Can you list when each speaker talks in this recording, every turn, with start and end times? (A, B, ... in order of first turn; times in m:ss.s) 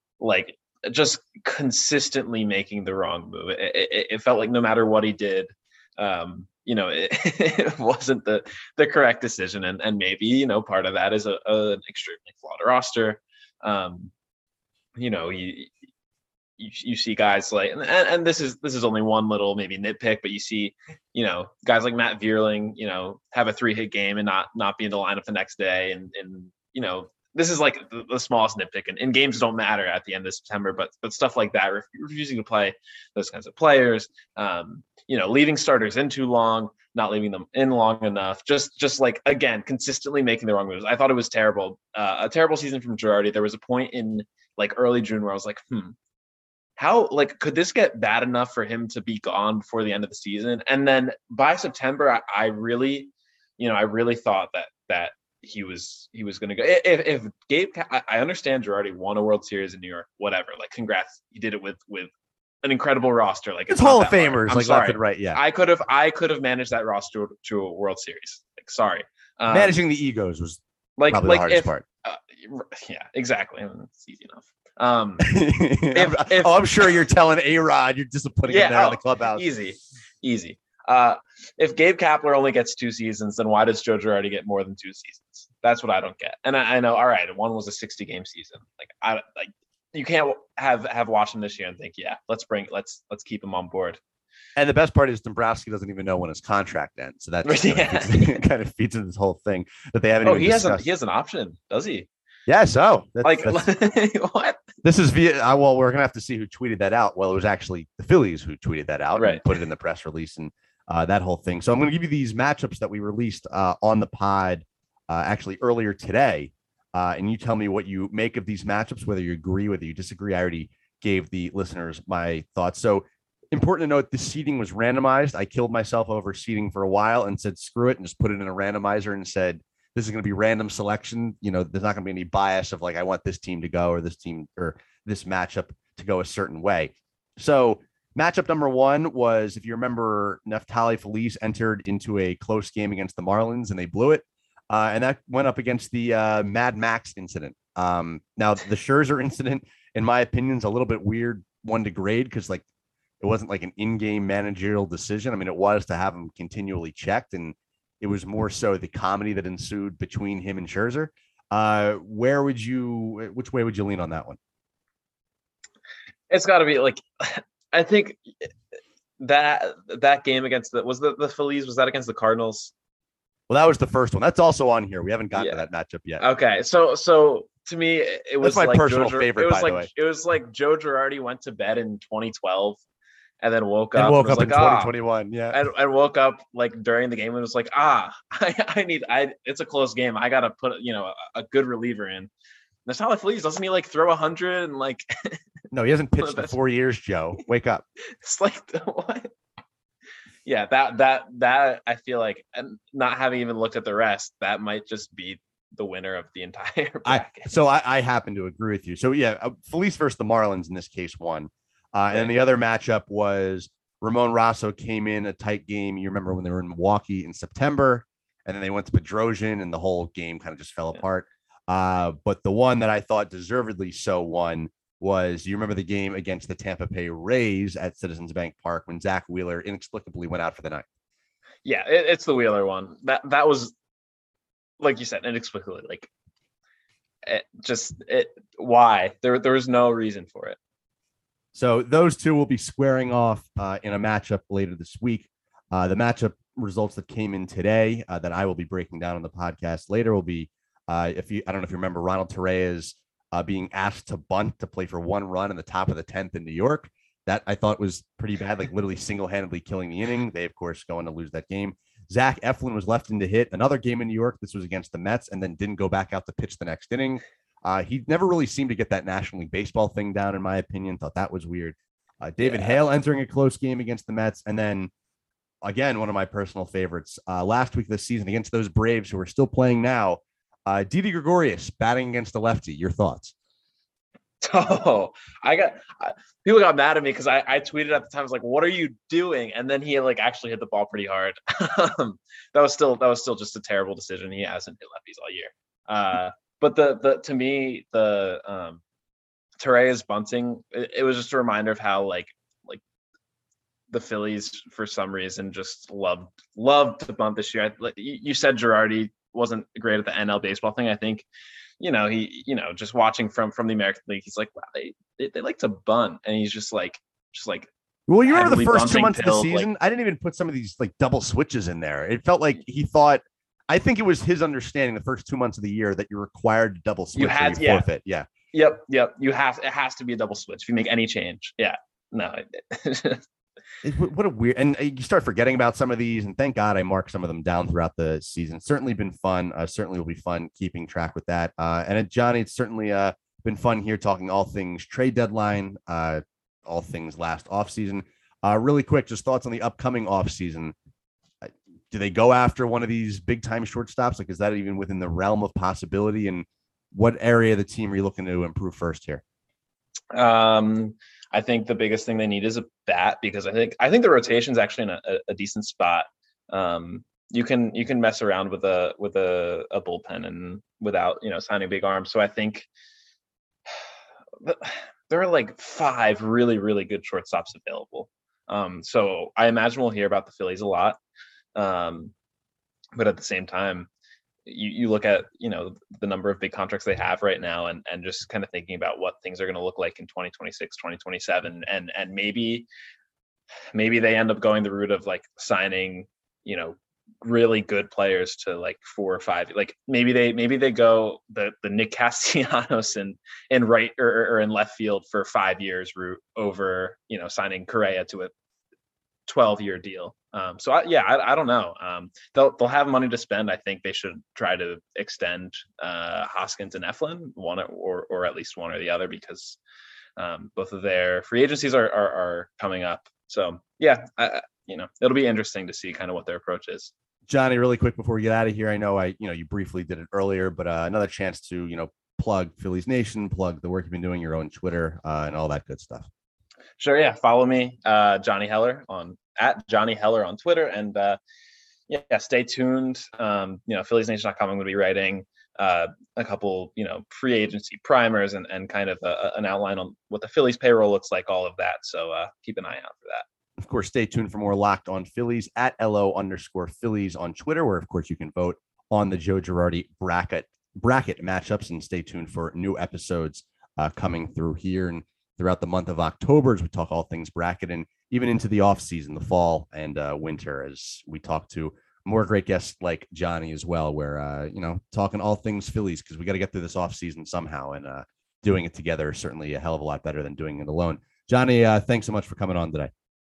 0:00.2-0:14.1 A
0:15.0-0:15.7 A
0:16.6-0:46.0 A
0:46.8-1:02.1 A
1:02.6-1:09.8 A
1:03.7-1:05.4 B
1:09.5-1:11.8 B
1:11.0-1:15.4 A
1:15.2-1:19.5 B
1:15.9-1:16.6 A
1:18.5-1:34.0 A
1:34.6-1:40.9 B
1:37.4-1:38.4 A
1:40.2-1:42.1 A
1:42.5-1:43.7 B
1:43.2-1:44.6 A
1:44.8-2:32.6 B
1:49.2-1:49.4 A
2:33.2-2:44.4 B
2:46.3-2:48.5 A
2:49.2-2:52.7 A
2:53.5-2:56.2 B
2:55.4-2:55.6 A
2:56.2-3:02.8 A
2:58.4-2:59.9 B
3:03.4-3:04.9 A
3:04.0-3:05.6 B
3:05.5-3:12.3 A
3:12.9-3:15.4 A
3:15.7-3:17.8 B
3:16.2-3:16.5 A
3:18.2-3:19.3 A
3:20.4-3:27.6 A
3:27.0-3:50.9 B
3:51.6-3:53.7 A
3:54.8-3:56.1 A
3:57.2-4:00.6 A
4:01.5-4:34.9 B
4:32.4-4:32.8 A
4:35.6-4:43.3 B
4:44.4-4:58.8 A
4:59.6-5:02.8 A
5:03.9-5:11.2 A
5:11.8-5:17.7 A
5:18.1-5:28.3 B
5:18.3-5:19.7 A
5:27.2-5:27.9 A
5:28.5-5:33.2 A
5:33.8-5:50.8 B
5:51.4-5:59.2 B
6:00.1-6:12.7 A
6:14.4-6:21.0 A
6:21.6-6:22.1 A
6:23.0-6:23.9 A
6:24.5-6:32.7 A
6:33.7-6:48.3 A
6:49.3-6:59.6 A
7:00.2-7:06.9 A
7:07.3-7:16.1 B
7:16.8-7:21.2 A
7:21.9-7:33.2 A
7:33.6-8:02.9 B